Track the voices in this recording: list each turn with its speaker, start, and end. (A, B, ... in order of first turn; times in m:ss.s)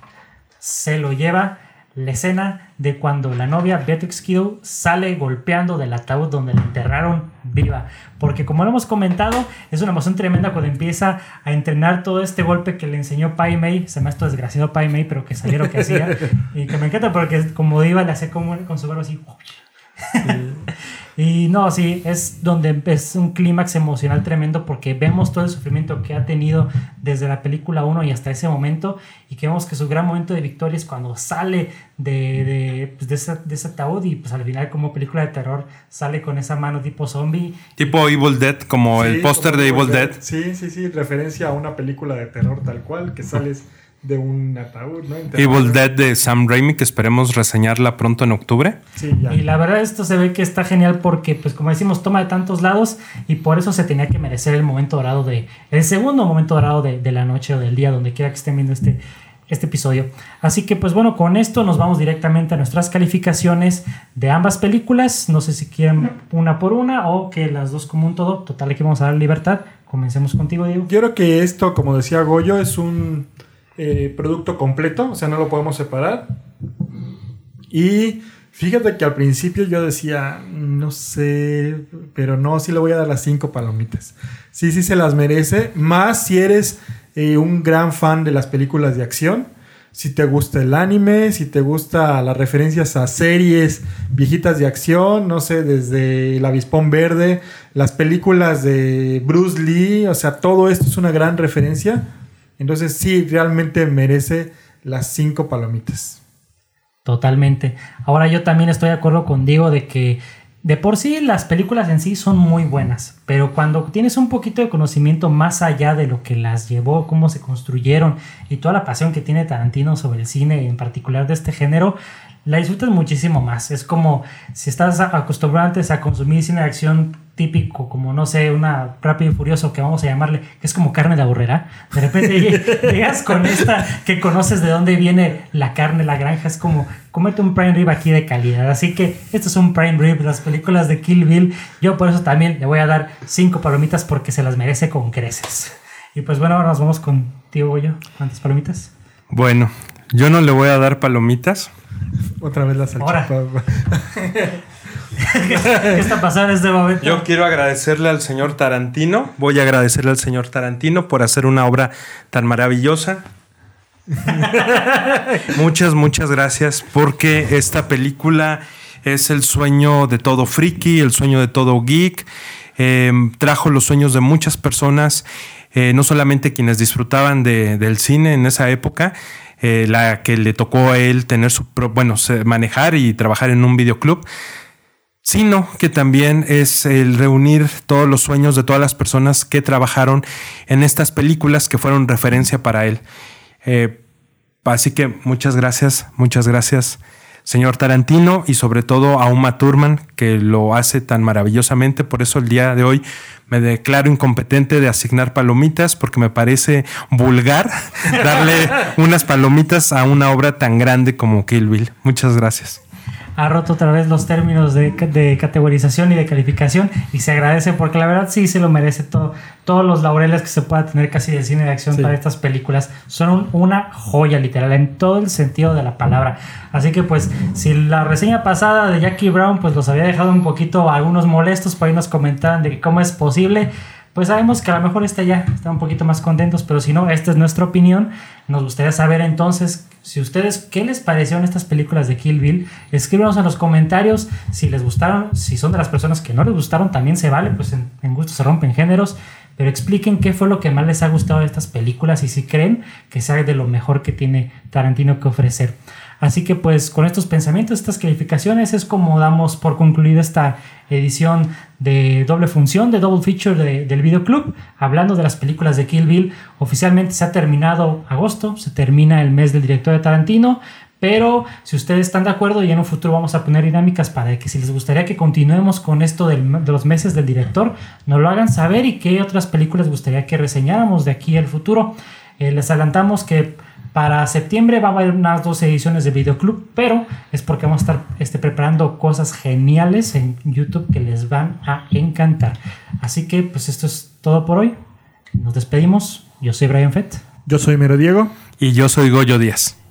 0:00.6-0:37.6 A
0:15.7-0:16.1 B
0:20.2-0:20.7 B
0:37.8-0:40.2 C
0:39.0-0:45.9 B
0:45.4-0:48.8 C
0:49.0-0:49.4 B
0:49.3-1:10.9 A
1:10.9-1:16.3 B
1:17.7-1:42.0 B
1:42.6-1:46.2 B
1:47.0-2:28.9 A
2:12.4-2:12.8 B
2:29.3-2:31.7 C
2:32.4-2:34.6 B
2:33.0-2:33.3 A
2:35.2-2:37.2 A
2:35.5-2:36.0 B
2:37.0-2:43.2 C
2:45.4-2:52.3 C
2:52.8-3:04.2 C
3:05.2-3:13.0 C
3:13.6-3:14.0 C
3:14.6-3:32.8 C
3:33.4-4:54.8 A
3:41.9-3:42.2 B
4:55.4-4:57.2 A
4:57.5-4:58.3 B
4:58.6-4:59.8 C